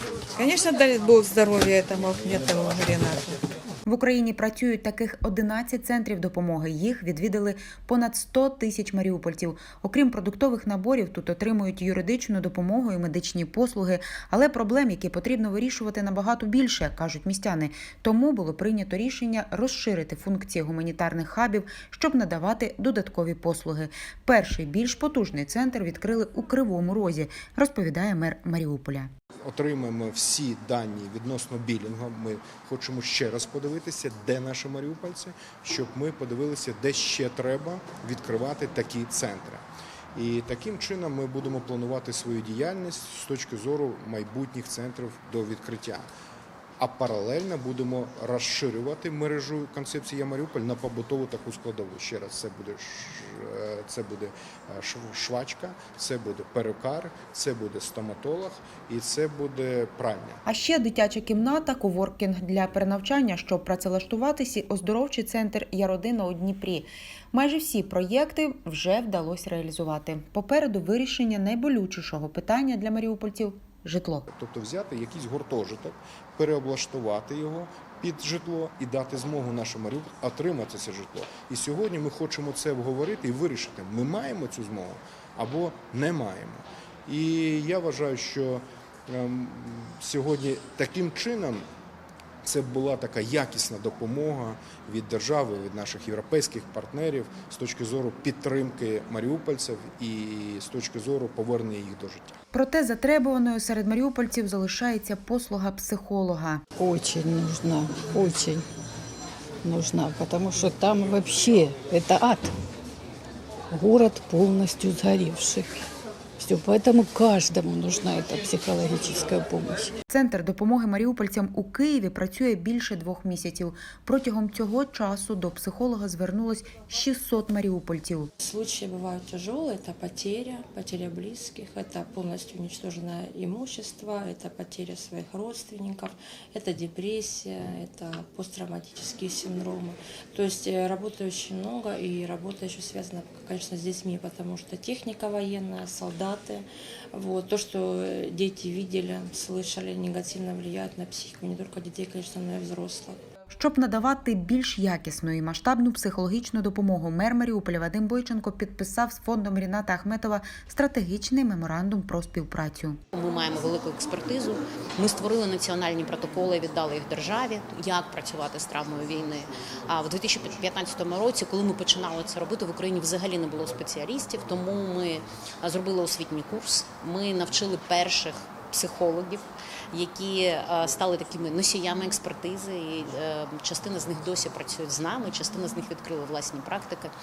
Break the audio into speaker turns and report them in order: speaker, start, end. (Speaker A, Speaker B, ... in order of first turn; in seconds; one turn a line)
Speaker A: 0.3-3.3
Speaker B: 3.9-29.1
Speaker C: 29.4-39.6
Speaker C: 40.1-46.0
Speaker C: 46.8-60.4
Speaker B: 60.5-74.3
Speaker C: 74.3-91.7
Speaker C: 92.4-102.3
Speaker B: 102.5-106.6
Speaker D: 106.8-108.6
Speaker D: 109.6-112.5
Speaker D: 113.7-115.8
Speaker D: 116.4-119.9
Speaker B: 120.1-128.3
Speaker E: 128.4-153.2
Speaker B: 153.5-163.0
Speaker F: 163.1-187.1